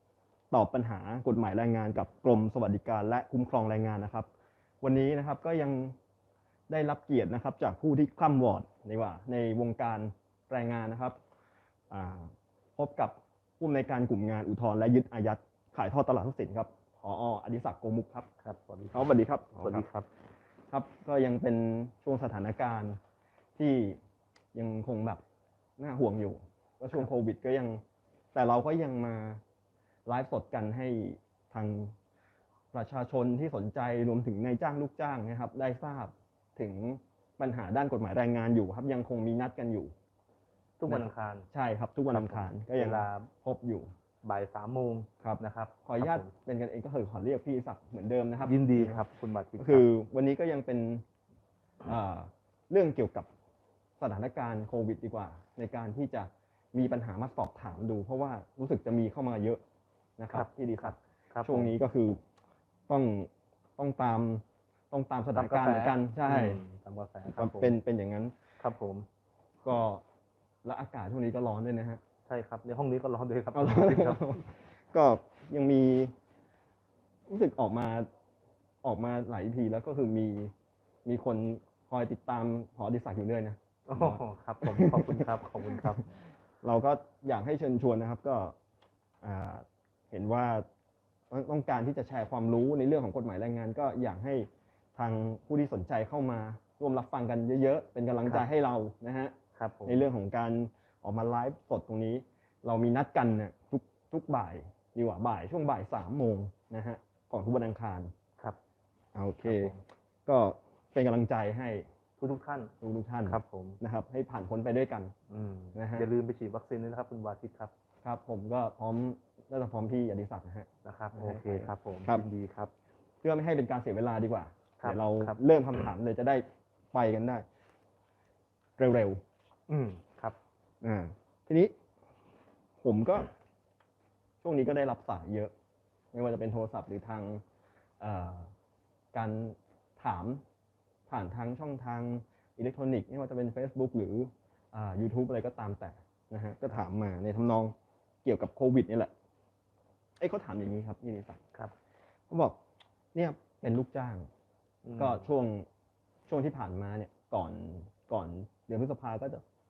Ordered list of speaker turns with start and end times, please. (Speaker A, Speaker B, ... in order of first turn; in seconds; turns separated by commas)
Speaker A: 0.5-4.3, Speaker A: 4.8-6.0, Speaker A: 6.7-11.2, Speaker A: 11.9-18.3, Speaker B: 18.4-19.1, Speaker A: 18.9-19.9, Speaker B: 19.6-20.1, Speaker A: 20.7-23.0, Speaker A: 23.6-24.0, Speaker A: 24.5-25.2, Speaker A: 25.8-27.8, Speaker A: 28.3-29.4, Speaker A: 30.1-31.9, Speaker A: 32.7-39.9, Speaker B: 40.8-41.5, Speaker A: 40.9-43.9, Speaker B: 42.1-43.3, Speaker B: 44.2-46.3, Speaker A: 45.2-49.0, Speaker B: 48.4-49.8, Speaker A: 49.6-51.0, Speaker A: 51.8-53.3, Speaker A: 54.0-59.6, Speaker A: 60.2-62.2, Speaker B: 60.3-61.7, Speaker A: 62.9-66.6, Speaker B: 65.3-67.7, Speaker A: 67.3-68.3, Speaker B: 68.6-69.0, Speaker A: 69.6-70.0, Speaker A: 70.6-72.0, Speaker B: 72.3-74.2, Speaker A: 73.5-76.1, Speaker A: 77.3-78.1, Speaker A: 78.8-80.5, Speaker A: 81.0-86.0, Speaker B: 83.9-86.0, Speaker A: 86.6-88.5, Speaker A: 89.2-90.6, Speaker A: 91.3-108.1, Speaker B: 99.5-100.0, Speaker A: 109.1-109.7, Speaker B: 109.4-109.8, Speaker A: 110.2-111.8, Speaker B: 112.2-112.7, Speaker A: 112.8-115.1, Speaker B: 113.3-113.8, Speaker B: 115.3-117.7, Speaker A: 115.7-116.1, Speaker A: 118.0-122.2, Speaker B: 120.8-122.7, Speaker A: 123.2-127.4, Speaker B: 124.8-125.4, Speaker A: 128.8-129.2, Speaker B: 129.7-130.4, Speaker A: 130.8-131.7, Speaker A: 132.8-133.3, Speaker A: 134.4-135.5, Speaker A: 136.1-137.4, Speaker A: 138.0-138.5, Speaker A: 139.1-140.4, Speaker A: 141.1-149.1, Speaker A: 150.2-151.4, Speaker A: 152.3-152.6, Speaker A: 153.1-154.3, Speaker B: 154.8-155.2, Speaker A: 155.0-155.7, Speaker A: 156.3-159.4